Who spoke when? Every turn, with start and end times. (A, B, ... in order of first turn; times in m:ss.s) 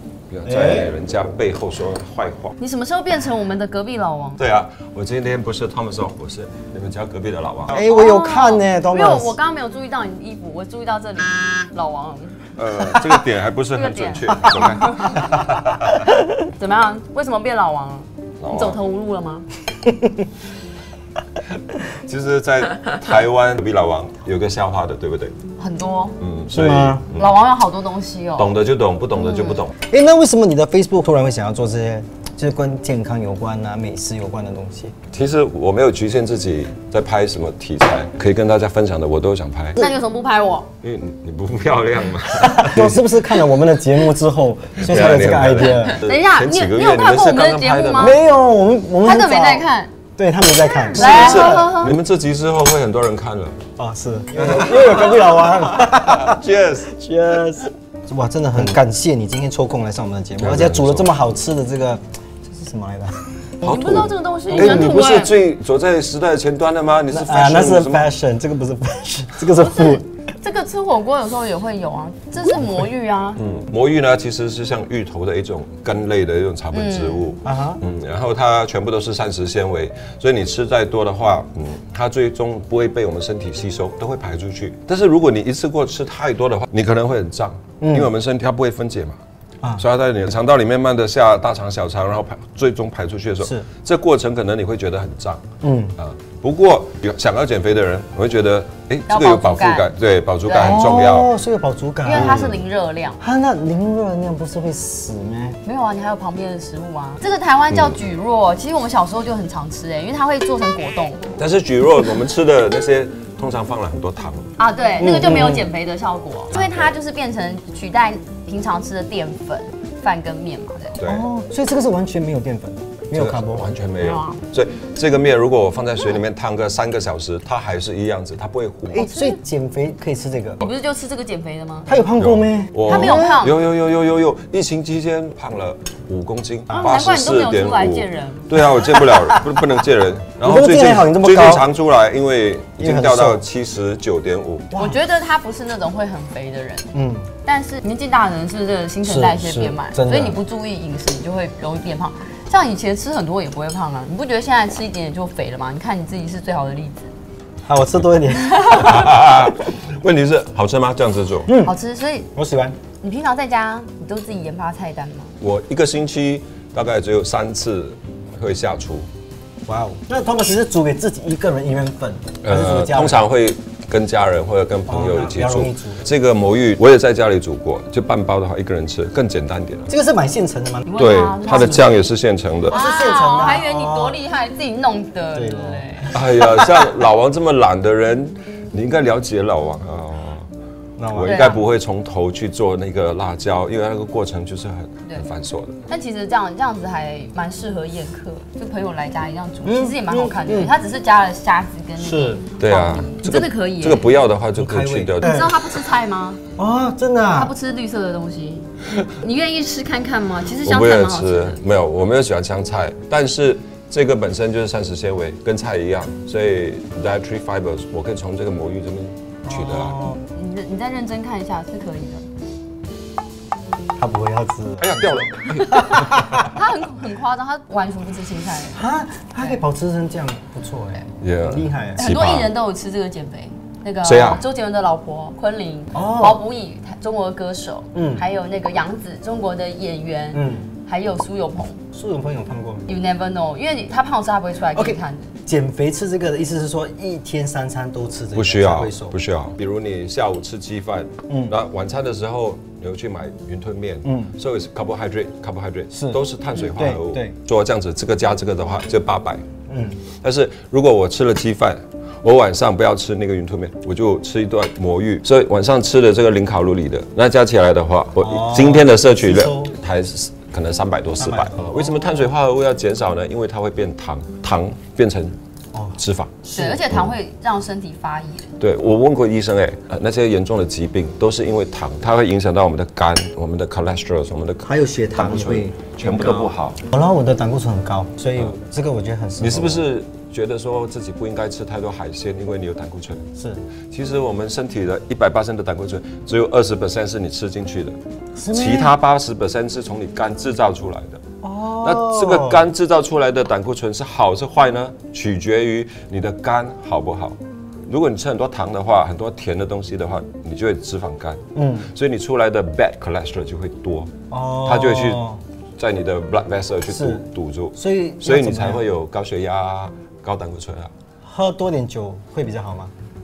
0:00.3-0:02.6 A
0:00.4-0:01.0 B
0:02.6-0:04.4 C
0:04.4-0:07.8 A
0:07.7-0:09.4 B
0:07.8-0:12.4 C
0:12.6-0:16.0 A
0:13.7-0:15.2 C
0:16.4-0:19.5 C
0:18.4-0:18.8 A
0:21.8-0:25.4 A
0:25.6-0:26.2 C
0:26.2-0:27.4 A
0:26.5-0:27.0 B
0:27.1-0:28.6 C
0:28.4-0:29.8 A
0:29.2-0:29.6 C
0:29.8-0:34.9 B
0:35.1-0:39.8 A
0:39.8-0:40.7 C
0:40.8-0:43.0 A
0:42.4-0:46.0 B
0:44.8-0:48.2 A
0:45.8-0:48.2 C
0:48.0-0:51.7 B
0:49.0-0:49.9 C
0:50.9-0:52.0 C
0:50.9-0:53.6 A
0:53.8-1:03.2 B
0:54.4-0:56.9 A
1:00.4-1:01.1 A
1:03.6-1:08.1 A
1:03.6-1:05.4 C
1:04.5-1:05.0 B
1:07.1-1:10.1 B
1:09.6-1:13.4 C
1:13.4-1:29.2 A
1:16.7-1:17.3 C
1:17.4-1:17.8 B
1:27.8-1:28.1 B
1:29.8-1:35.5 A
1:33.4-1:33.7 B
1:35.6-1:36.0 B
1:36.0-1:41.3 A
1:39.1-1:39.9 C
1:40.4-1:40.9 C
1:40.6-1:42.5 B
1:42.0-1:43.2 C
1:42.1-1:42.6 A
1:43.2-1:45.6 B
1:45.6-1:51.3 C
1:51.4-1:54.5 A
1:54.6-2:01.0 C
1:55.0-1:55.7 B
1:56.5-1:57.0 A
2:01.0-2:01.3 A
2:01.0-2:03.7 B
2:03.1-2:09.1 A
2:04.0-2:04.4 C
2:08.9-2:10.6 B
2:09.0-2:09.4 C
2:10.6-2:11.9 C
2:11.9-2:13.5 B
2:12.2-2:24.7 A
2:12.9-2:13.6 C
2:16.7-2:18.5 C
2:18.9-2:19.4 B
2:20.4-2:21.6 B
2:22.8-2:23.4 B
2:24.7-2:25.0 B
2:24.7-2:26.9 C
2:26.9-2:27.3 B
2:27.4-2:37.1 C
2:29.0-2:30.4 B
2:37.6-2:38.9 B
2:38.5-2:39.1 C
2:38.7-2:41.5 A
2:41.5-2:41.8 B
2:41.6-2:42.3 C
2:42.4-2:42.8 B
2:43.0-2:45.4 C
2:45.4-2:49.1 A
2:49.7-2:53.3 B
2:52.4-2:59.9 A
2:54.9-2:56.0 B
2:59.9-3:01.8 B
3:00.9-3:02.0 C
3:01.0-3:02.8 A
3:02.7-3:04.2 B
3:02.7-3:06.2 C
3:05.3-3:06.1 B
3:06.1-3:10.5 A
3:11.0-3:11.6 B
3:11.1-3:15.8 A
3:11.2-3:11.6 C
3:15.9-3:24.1 C
3:19.6-3:20.7 B
3:22.0-3:22.4 B
3:22.6-3:25.4 A
3:24.6-3:25.5 B
3:25.2-3:26.4 C
3:26.6-3:27.5 B
3:27.3-3:31.6 C
3:30.6-3:40.0 A
3:39.4-3:40.2 B
3:40.3-3:42.3 C
3:44.0-3:46.3 B
3:44.8-3:46.5 A
3:46.4-3:48.8 C
3:48.7-3:52.0 B
3:51.2-3:52.5 A
3:52.0-4:01.8 C
3:54.0-3:54.4 A
3:55.9-3:56.4 B
3:57.9-3:58.2 B
4:00.3-4:00.7 B
4:01.9-4:02.9 B
4:02.9-4:05.3 C
4:04.7-4:09.2 B
4:08.4-4:19.4 A
4:11.3-4:11.6 B
4:14.0-4:14.3 B
4:15.9-4:17.4 B
4:19.7-4:20.0 B
4:20.2-4:35.4 A
4:28.2-4:29.7 B
4:31.2-4:32.1 B
4:35.7-4:36.9 B
4:36.0-4:36.4 A
4:36.5-4:38.6 C
4:38.6-4:46.8 A
4:44.6-4:49.8 B
4:49.4-4:53.2 A
4:53.4-4:53.6 B
4:53.9-4:58.0 A
4:58.4-4:59.0 B
4:58.5-5:01.2 A
5:01.4-5:02.7 B
5:01.8-5:14.1 A
5:11.6-5:11.9 B
5:14.3-5:15.4 B
5:14.6-5:15.2 A
5:15.8-5:20.9 A
5:16.9-5:17.2 B
5:17.8-5:18.8 B
5:21.2-5:22.9 B